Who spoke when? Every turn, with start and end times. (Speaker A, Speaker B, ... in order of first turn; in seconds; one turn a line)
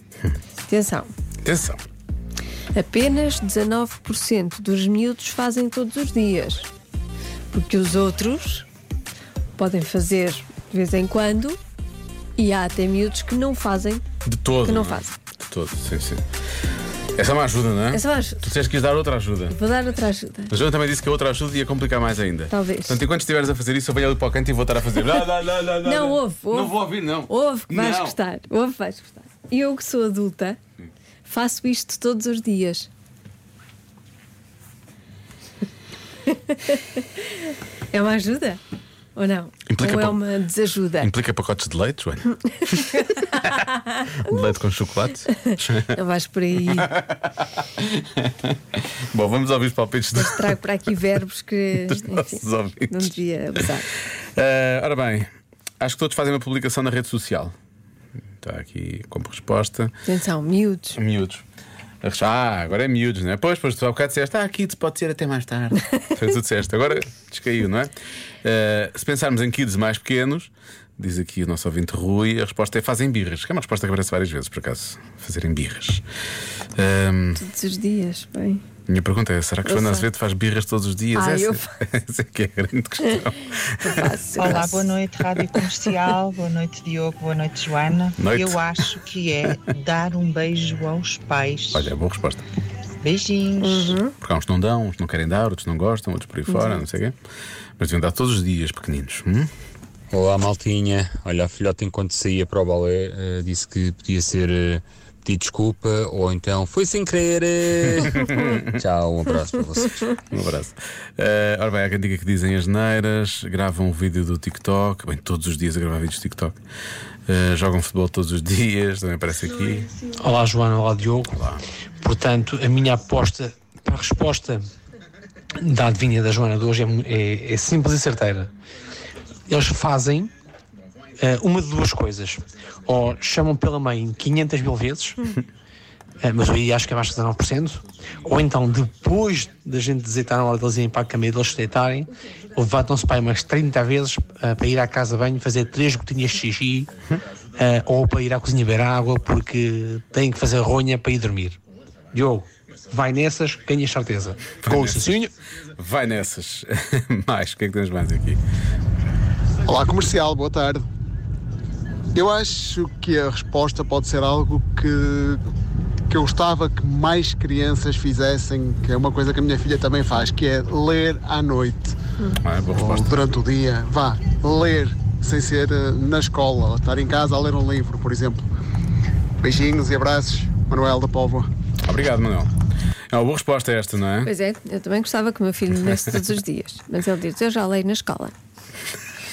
Speaker A: 0.7-1.1
Speaker B: 1.4-1.8
Speaker A: 2.7-6.7
Speaker A: 7.5-8.7
Speaker A: 9.5-11.6
Speaker A: 12.4-14.0
Speaker B: 14.2-16.2
Speaker A: 14.6-15.1
Speaker B: 17.1-19.5
Speaker A: 17.9-18.5
Speaker A: 19.5-20.5
Speaker B: 20.5-28.2
Speaker A: 22.5-23.0
Speaker A: 25.8-30.6
Speaker A: 31.2-32.9
Speaker A: 36.3-38.6
Speaker A: 39.1-41.1
Speaker B: 39.7-40.2
Speaker B: 41.0-46.0
Speaker A: 42.9-44.2
Speaker A: 45.3-46.9
Speaker B: 46.7-48.5
Speaker B: 49.1-50.5
Speaker A: 50.2-53.9
Speaker B: 51.8-53.6
Speaker B: 54.4-55.3
Speaker B: 55.8-57.5
Speaker B: 58.4-59.9
Speaker A: 60.0-61.0
Speaker B: 60.9-61.4
Speaker B: 62.0-67.9
Speaker B: 68.4-76.0
Speaker B: 76.8-77.4
Speaker A: 77.4-78.6
Speaker B: 78.9-84.6
Speaker A: 79.6-80.1
Speaker A: 81.1-81.7
Speaker A: 83.8-84.9
Speaker C: 84.3-91.9
Speaker B: 88.2-88.9
Speaker B: 91.7-92.4
Speaker C: 93.0-94.0
Speaker A: 93.6-94.1
Speaker B: 94.2-97.2
Speaker B: 97.8-99.5
Speaker D: 100.1-110.0
Speaker B: 108.2-108.6
Speaker B: 110.3-116.6
Speaker B: 117.3-120.0
Speaker E: 120.1-121.4
Speaker B: 121.3-121.6
Speaker E: 122.0-124.6
Speaker E: 125.6-128.5
Speaker E: 129.5-130.3
Speaker E: 131.2-135.3
Speaker E: 136.2-146.9
Speaker E: 147.5-151.6
Speaker E: 152.1-155.3
Speaker B: 154.6-155.1
Speaker B: 155.8-158.4
Speaker F: 159.7-160.8
Speaker F: 162.1-165.4
Speaker F: 166.1-171.9
Speaker B: 172.4-173.2
Speaker F: 172.8-178.4
Speaker F: 179.4-181.5
Speaker B: 181.8-182.5
Speaker B: 183.1-184.3
Speaker A: 184.2-188.3